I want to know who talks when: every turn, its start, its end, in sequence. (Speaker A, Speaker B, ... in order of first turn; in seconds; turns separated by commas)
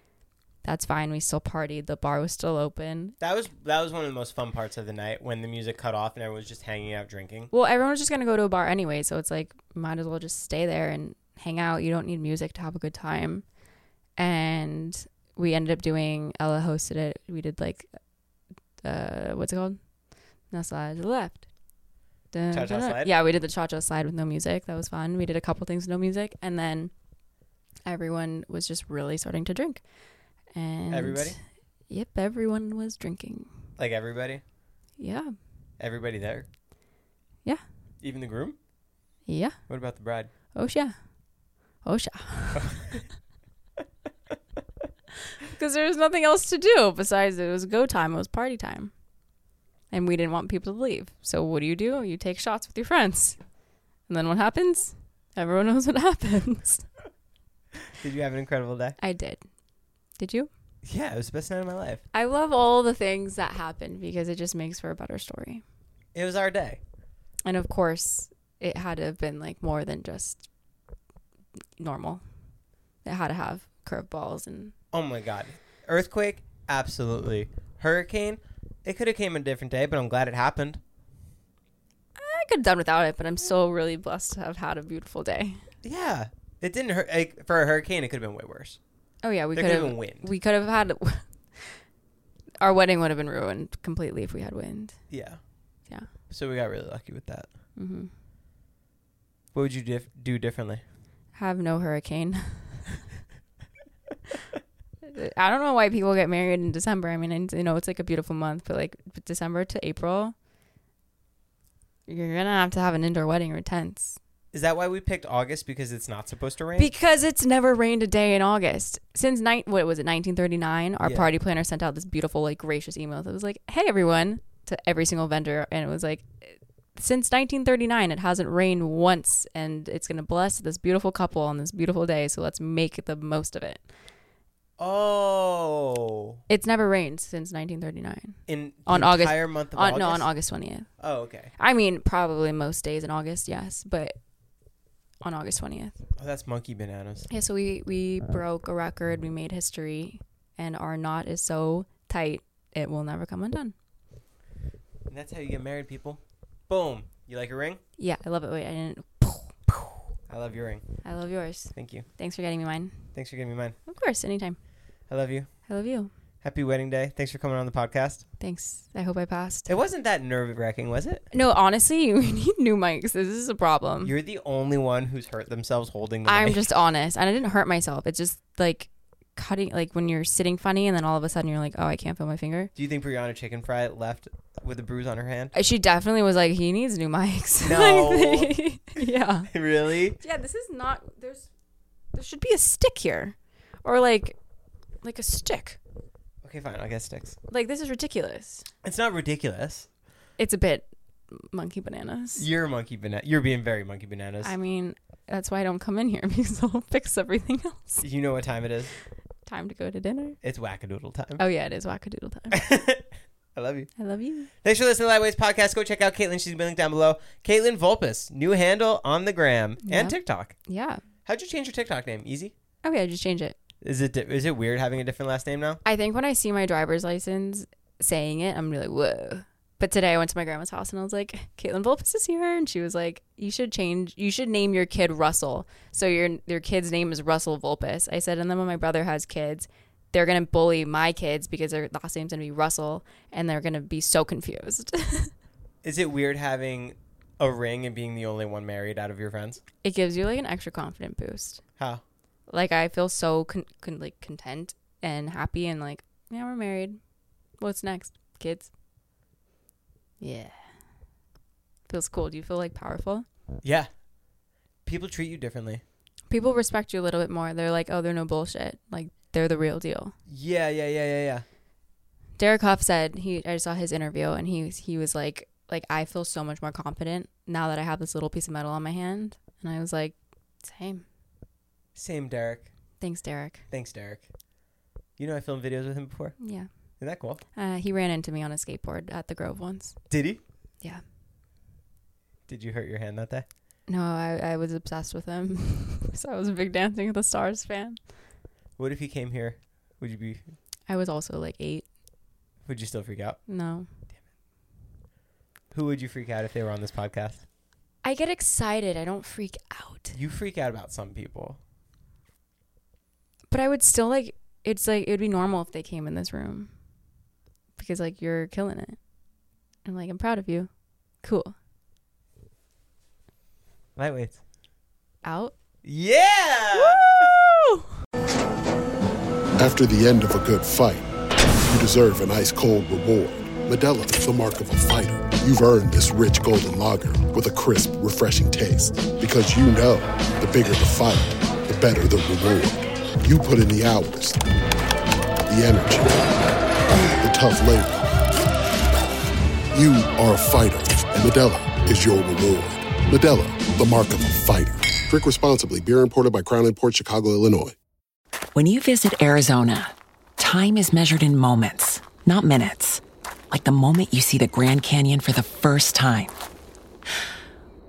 Speaker A: 0.6-3.1, Speaker B: 3.2-7.5, Speaker A: 7.5-13.4, Speaker A: 14.2-17.9, Speaker A: 18.8-19.8, Speaker A: 20.5-21.4, Speaker A: 22.3-26.9, Speaker B: 22.5-23.1, Speaker A: 27.9-29.8, Speaker A: 30.5-31.4, Speaker B: 30.9-31.4, Speaker A: 31.9-33.5, Speaker B: 33.8-34.4, Speaker A: 35.0-35.3, Speaker B: 35.8-36.5, Speaker B: 38.0-38.6, Speaker A: 39.3-39.6, Speaker B: 39.7-40.3, Speaker A: 40.5-40.9, Speaker A: 41.8-42.8, Speaker B: 42.5-43.0, Speaker A: 45.4-48.9, Speaker A: 49.9-53.4, Speaker A: 54.1-56.8, Speaker B: 58.0-59.0, Speaker A: 59.0-59.4, Speaker A: 60.2-60.5, Speaker B: 60.8-62.0, Speaker A: 62.1-65.6, Speaker B: 66.1-66.8, Speaker A: 67.4-70.5, Speaker A: 71.8-72.2, Speaker A: 73.0-74.7, Speaker B: 74.9-80.8, Speaker A: 82.2-85.6, Speaker B: 85.8-88.8, Speaker A: 89.2-91.8, Speaker B: 89.5-90.3, Speaker A: 92.6-95.0, Speaker B: 95.1-95.4, Speaker B: 96.3-97.5, Speaker A: 97.8-98.1, Speaker B: 99.5-100.8, Speaker A: 101.3-103.0, Speaker A: 105.0-110.3, Speaker A: 112.1-114.2, Speaker B: 114.5-116.9, Speaker A: 116.8-133.8, Speaker B: 134.8-136.4, Speaker A: 136.5-140.9, Speaker B: 138.5-140.3, Speaker B: 141.0-141.5, Speaker A: 141.6-144.2, Speaker A: 145.2-146.0, Speaker B: 146.2-147.3, Speaker A: 147.3-153.7, Speaker B: 155.1-157.8, Speaker A: 158.0-160.0, Speaker B: 160.3-160.9, Speaker A: 161.0-163.0, Speaker B: 161.7-162.1, Speaker B: 163.1-163.8, Speaker A: 163.9-164.6, Speaker B: 165.1-165.5, Speaker A: 165.7-166.1, Speaker B: 166.4-168.2, Speaker A: 168.4-169.7, Speaker B: 169.7-171.2, Speaker A: 171.3-174.1, Speaker B: 174.0-176.7, Speaker A: 176.2-182.7, Speaker B: 182.8-185.5, Speaker A: 185.5-189.5, Speaker B: 187.6-188.5, Speaker B: 189.5-190.2, Speaker A: 190.2-191.5, Speaker A: 192.1-194.4, Speaker A: 195.0-195.8, Speaker B: 196.4-197.4, Speaker A: 197.5-198.7, Speaker B: 198.8-199.9, Speaker A: 200.4-202.4, Speaker B: 202.4-204.5, Speaker A: 204.4-208.0, Speaker B: 208.0-208.9, Speaker A: 209.4-210.3, Speaker B: 210.4-211.4, Speaker A: 211.4-212.6, Speaker B: 212.5-213.9, Speaker A: 214.0-214.5, Speaker B: 214.6-220.5, Speaker A: 219.8-221.0, Speaker B: 221.2-222.5, Speaker A: 222.8-223.6, Speaker B: 223.8-225.8, Speaker A: 225.8-245.3, Speaker B: 245.8-249.6, Speaker A: 249.8-251.6, Speaker A: 252.5-257.0, Speaker A: 257.6-258.7, Speaker A: 260.2-260.5, Speaker A: 261.9-263.2, Speaker B: 263.6-263.9, Speaker B: 264.9-265.8, Speaker A: 266.3-270.1, Speaker B: 270.3-271.4, Speaker A: 272.4-281.0, Speaker B: 281.9-282.7, Speaker A: 283.0-283.6, Speaker B: 283.7-284.2, Speaker B: 285.2-286.4, Speaker A: 286.4-286.7, Speaker B: 287.0-287.4, Speaker A: 287.6-290.0, Speaker B: 290.1-290.4, Speaker B: 292.5-293.4, Speaker A: 293.9-298.0, Speaker B: 298.8-300.4, Speaker A: 300.9-301.9, Speaker B: 302.6-303.4, Speaker A: 303.5-303.9, Speaker B: 305.7-307.4, Speaker A: 308.0-310.1, Speaker B: 310.1-311.6, Speaker A: 313.5-316.7, Speaker A: 317.8-319.0, Speaker A: 319.8-320.7, Speaker A: 321.2-321.5, Speaker B: 323.9-324.4, Speaker A: 325.2-325.5, Speaker B: 325.8-327.2, Speaker A: 326.7-327.8, Speaker C: 329.5-331.1, Speaker C: 331.6-344.4, Speaker C: 345.5-346.3, Speaker C: 347.1-348.1, Speaker C: 349.7-357.8, Speaker D: 358.5-366.3